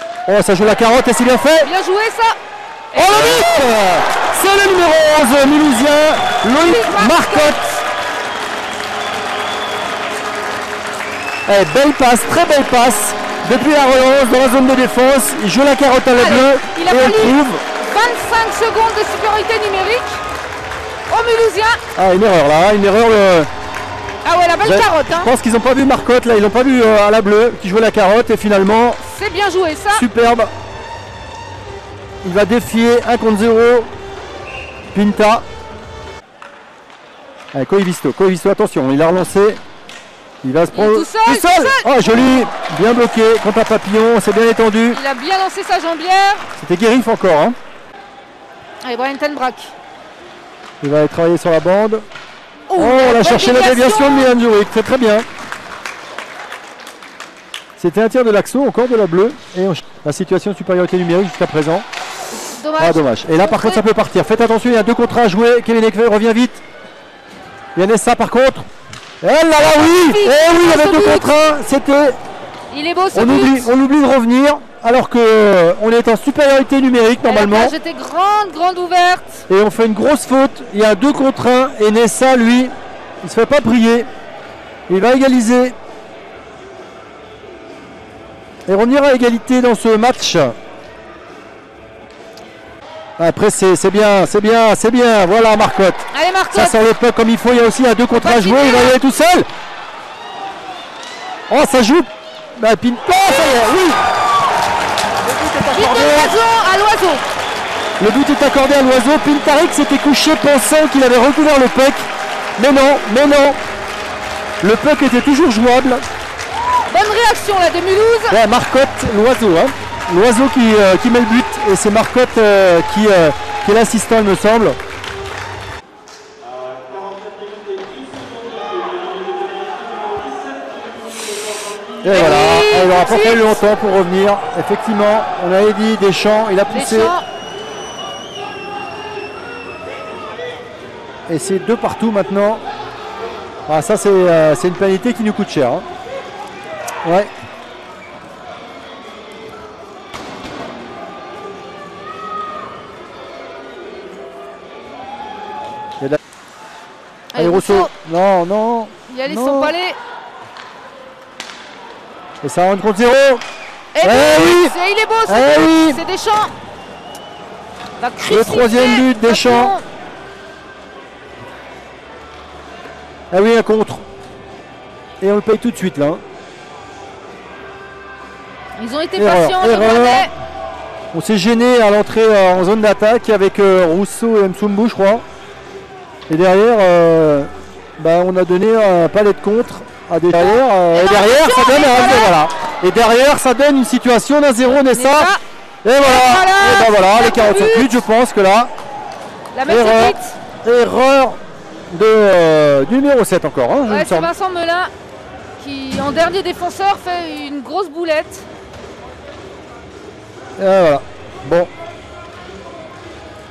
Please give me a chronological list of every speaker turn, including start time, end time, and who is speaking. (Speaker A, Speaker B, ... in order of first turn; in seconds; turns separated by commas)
Speaker A: 0.3-1.7, Speaker B: 1.6-2.4, Speaker B: 2.9-3.4, Speaker A: 2.9-7.7, Speaker B: 6.6-7.7, Speaker A: 11.5-17.6, Speaker B: 16.2-20.2, Speaker B: 21.1-21.8, Speaker A: 22.0-23.5, Speaker B: 24.2-25.3, Speaker A: 24.6-29.0, Speaker B: 29.0-30.0, Speaker A: 29.9-30.5, Speaker A: 32.2-33.9, Speaker A: 34.9-35.5, Speaker A: 37.5-39.6, Speaker A: 40.4-45.0, Speaker B: 40.7-42.5, Speaker B: 44.9-46.5, Speaker A: 46.6-47.6, Speaker B: 48.8-49.7, Speaker A: 50.8-52.1, Speaker B: 52.7-54.3, Speaker A: 52.8-55.3, Speaker A: 57.8-61.8, Speaker B: 62.4-63.8, Speaker A: 62.8-66.6, Speaker A: 67.8-68.7, Speaker A: 69.2-72.2, Speaker B: 69.7-71.3, Speaker B: 72.7-73.7, Speaker A: 73.1-77.8, Speaker B: 77.2-79.4, Speaker A: 79.5-84.1, Speaker A: 84.9-85.8, Speaker A: 88.7-90.6, Speaker A: 93.2-99.5, Speaker B: 96.1-96.8, Speaker B: 98.2-99.0, Speaker A: 101.5-104.0, Speaker A: 105.2-106.4, Speaker B: 105.7-107.2, Speaker A: 108.0-113.6, Speaker A: 114.6-116.0, Speaker B: 116.9-118.4, Speaker A: 118.3-124.8, Speaker A: 132.0-137.1, Speaker B: 132.0-133.6, Speaker B: 136.7-137.2, Speaker A: 141.3-142.6, Speaker A: 143.7-145.8, Speaker A: 147.0-147.3, Speaker B: 157.3-157.9, Speaker A: 157.4-159.7, Speaker B: 159.1-160.0, Speaker A: 162.4-163.4, Speaker B: 163.9-166.5, Speaker A: 164.0-164.8, Speaker A: 165.3-166.0, Speaker B: 168.0-169.8, Speaker A: 168.2-169.8, Speaker A: 173.3-174.0, Speaker A: 175.2-176.2, Speaker B: 178.8-180.3, Speaker A: 179.2-180.3, Speaker A: 181.1-185.2, Speaker A: 186.3-198.7, Speaker B: 190.9-192.3, Speaker B: 194.7-195.4, Speaker B: 196.0-198.0, Speaker B: 199.5-200.3, Speaker A: 199.7-201.4, Speaker A: 201.9-204.3, Speaker B: 203.9-204.9, Speaker B: 205.6-208.4, Speaker A: 210.6-211.7